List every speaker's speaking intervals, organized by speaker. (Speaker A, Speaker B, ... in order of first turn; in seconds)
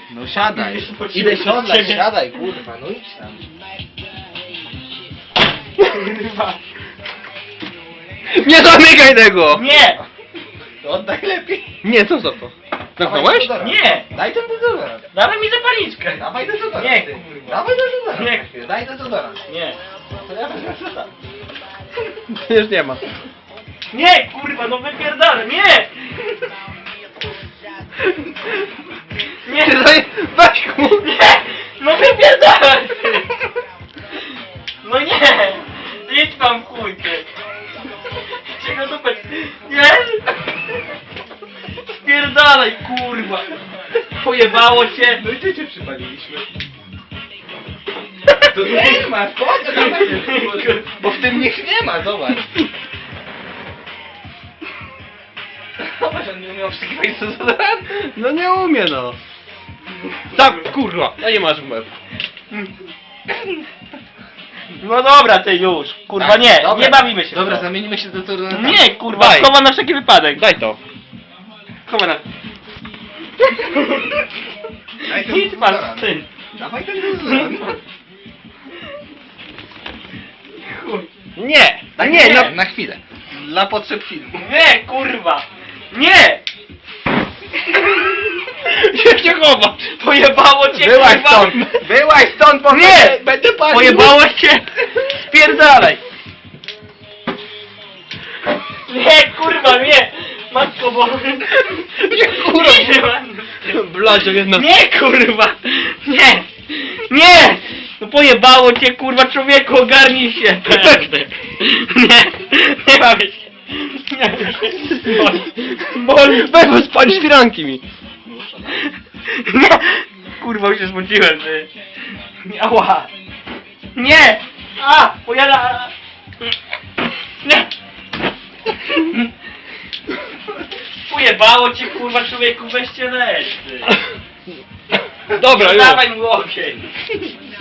Speaker A: 0.1-3.5, 9.7-10.0, 10.8-11.8, 13.0-15.1, 16.1-19.4, 20.2-21.1, 45.0-46.5, 48.5-52.5, 55.8-58.0, 66.2-68.9, 75.0-77.7, 82.0-84.4, 90.7-94.2
Speaker B: 0.3-2.1, 5.8-6.6, 9.5-10.0, 13.6-14.1, 15.1-16.2, 16.8-17.6, 18.1-18.4, 19.5-19.8, 23.9-25.9, 29.4-29.9, 30.9-33.3, 34.8-37.2, 38.5-40.3, 41.9-43.5, 44.2-45.2, 48.3-49.1, 49.7-50.9, 64.8-67.7, 68.5-70.4, 71.8-72.2, 73.4-74.2, 75.1-76.3, 77.1-77.8, 80.6-81.1, 84.3-86.4, 90.0-91.7, 92.7-96.0, 98.9-116.5, 118.7-121.7, 122.4-123.1, 123.9-125.9, 127.4-127.7, 128.9-129.3, 131.1-133.9, 135.4-136.8
Speaker C: 8.3-9.6, 11.8-13.5, 22.3-23.0, 29.5-31.1, 57.9-59.2, 60.3-61.9, 69.1-69.5, 70.3-70.8, 81.3-82.5, 88.5-89.9, 102.0-103.0, 103.7-104.7, 110.7-111.1, 114.9-118.4, 135.3-136.0